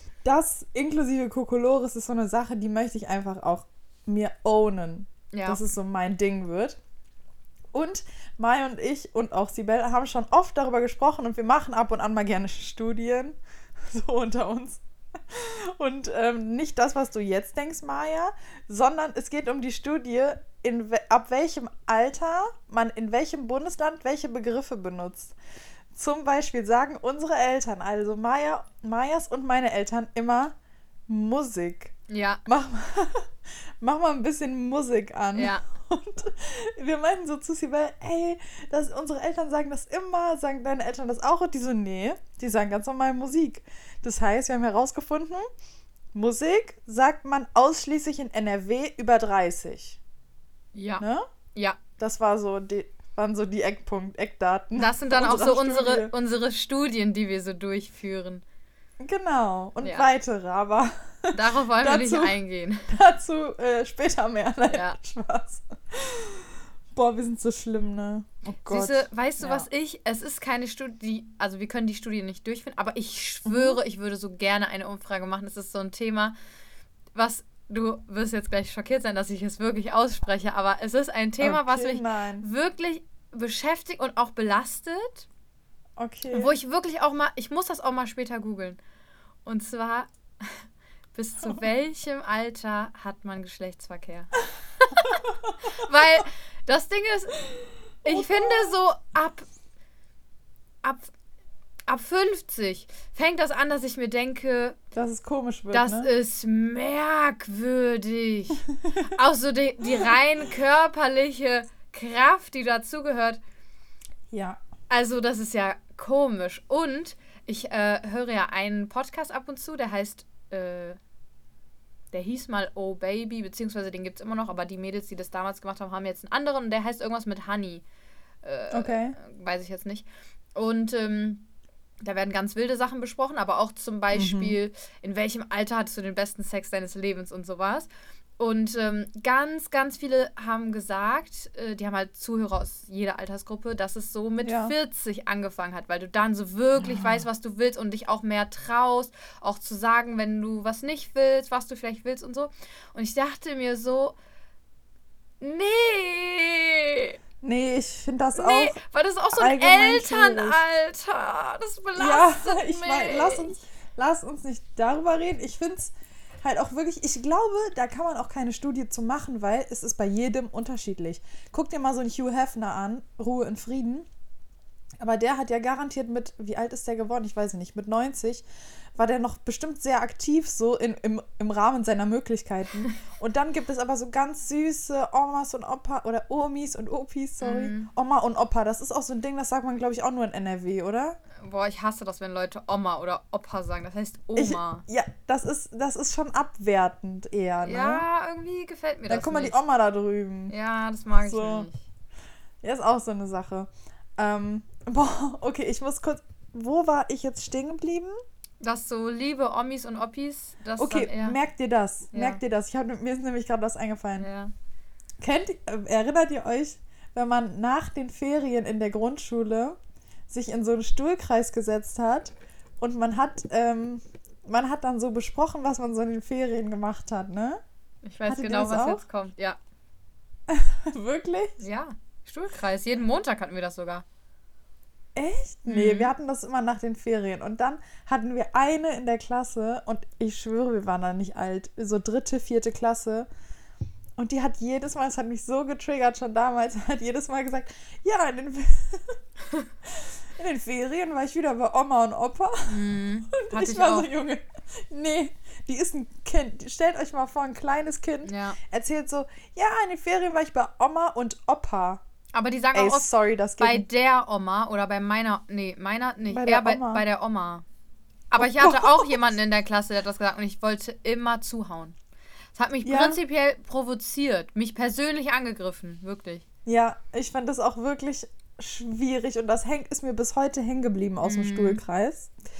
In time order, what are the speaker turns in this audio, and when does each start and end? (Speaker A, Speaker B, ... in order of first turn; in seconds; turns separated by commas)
Speaker A: 0.2-6.8, Speaker B: 5.3-5.6, Speaker A: 7.7-25.3, Speaker A: 25.9-30.5, Speaker A: 31.1-31.9, Speaker B: 32.1-32.4, Speaker A: 32.5-33.3, Speaker A: 33.8-45.5, Speaker B: 35.3-35.6, Speaker A: 46.1-50.0, Speaker B: 50.7-51.8, Speaker A: 51.0-51.3, Speaker A: 52.0-56.1, Speaker B: 54.8-58.4, Speaker A: 59.0-62.4, Speaker B: 59.8-60.1, Speaker B: 61.3-62.9, Speaker A: 62.9-69.7, Speaker B: 64.7-65.0, Speaker B: 68.7-76.3, Speaker A: 73.5-73.8, Speaker B: 77.1-85.3, Speaker A: 81.4-82.5, Speaker A: 86.0-86.5, Speaker B: 86.3-88.8, Speaker B: 89.5-97.4, Speaker A: 95.0-95.5, Speaker B: 98.0-99.5, Speaker A: 98.0-98.7, Speaker B: 100.8-101.1, Speaker B: 101.9-104.8, Speaker A: 104.9-106.1, Speaker B: 105.7-113.4, Speaker A: 109.9-110.1, Speaker A: 114.3-114.6, Speaker B: 114.9-121.0, Speaker B: 122.1-127.8, Speaker B: 128.4-131.4, Speaker A: 128.7-129.2, Speaker B: 132.0-137.9, Speaker A: 134.1-134.6, Speaker B: 138.4-154.2, Speaker A: 144.4-144.7, Speaker A: 146.8-147.2, Speaker B: 155.4-157.2, Speaker A: 157.4-158.8, Speaker B: 158.3-163.6, Speaker A: 159.3-160.6, Speaker A: 161.9-174.1, Speaker A: 175.0-191.2, Speaker B: 187.4-187.9, Speaker B: 191.4-194.8, Speaker A: 194.3-198.0, Speaker B: 197.6-199.6, Speaker A: 199.1-200.5, Speaker B: 200.5-201.8, Speaker A: 201.2-201.7, Speaker A: 202.6-208.2, Speaker B: 208.6-211.4, Speaker A: 210.8-214.3, Speaker B: 212.1-212.4, Speaker B: 214.2-214.5, Speaker A: 215.2-219.8, Speaker A: 220.3-227.6, Speaker B: 228.0-229.6, Speaker A: 228.2-229.0, Speaker A: 230.5-231.6, Speaker B: 231.6-234.0, Speaker A: 235.2-243.3, Speaker B: 235.7-236.1, Speaker A: 244.2-249.2, Speaker A: 249.8-262.0, Speaker B: 252.7-254.1, Speaker B: 258.2-258.6, Speaker B: 262.3-267.6, Speaker A: 262.7-263.9, Speaker A: 266.3-267.0, Speaker B: 268.3-271.9, Speaker A: 268.4-269.2, Speaker B: 272.5-276.4, Speaker A: 272.8-273.2, Speaker A: 276.6-282.3, Speaker B: 281.2-281.8